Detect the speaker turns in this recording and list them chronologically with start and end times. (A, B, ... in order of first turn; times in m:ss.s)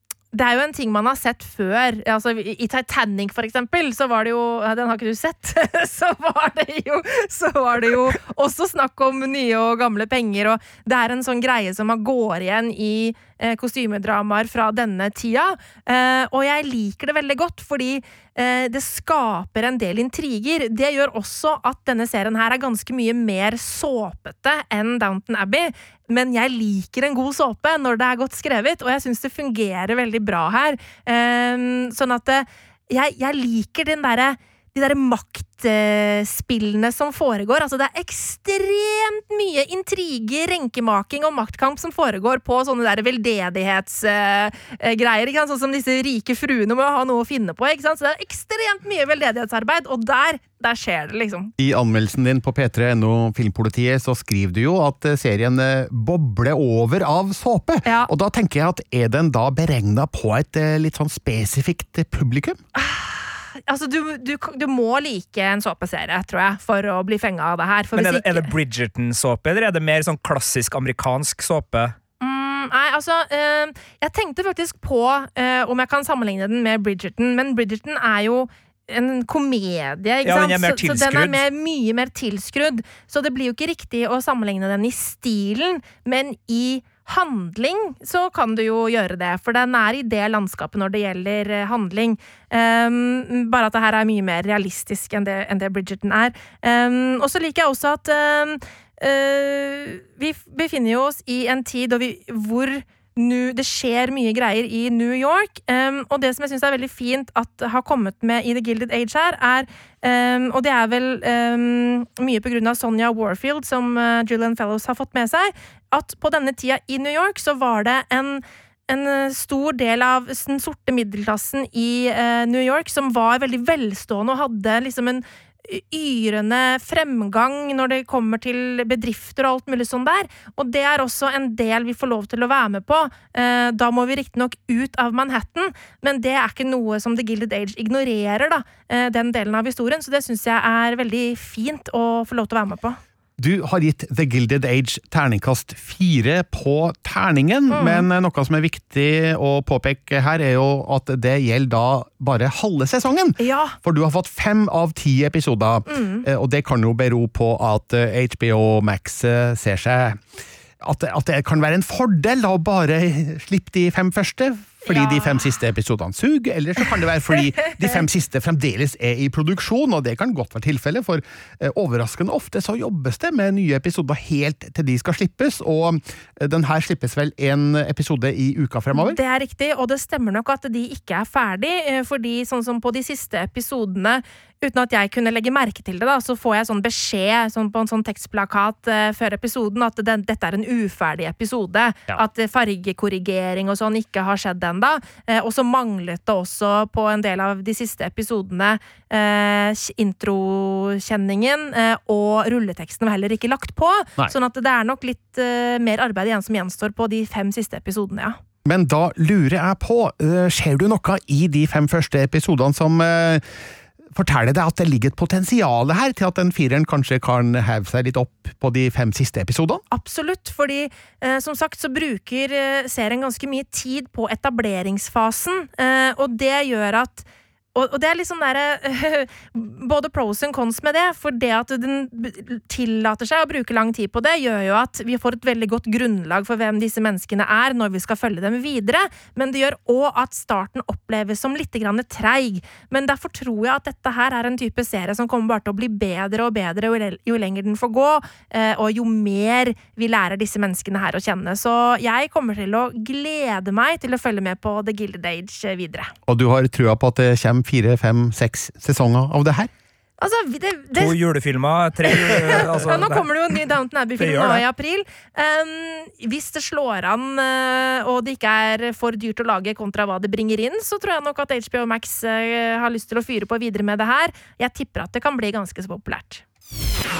0:00.3-0:51.5 A
0:51.6-1:02.6 B
1:02.7-1:08.5 A
1:07.9-1:11.9 C
1:12.2-2:23.0 A
1:20.2-1:21.4 C
2:23.4-2:40.2 B
2:27.7-2:28.1 A
2:33.4-2:33.8 A
2:35.9-2:36.2 A
2:40.8-2:59.2 B
2:44.8-2:45.6 A
2:58.9-3:28.4 A
3:28.6-3:33.4 B
3:34.1-3:39.8 B
3:39.9-4:16.1 A
4:16.2-4:19.7 B
4:20.2-4:21.2 A
4:20.9-4:23.2 C
4:22.1-4:36.4 A
4:24.2-4:24.6 C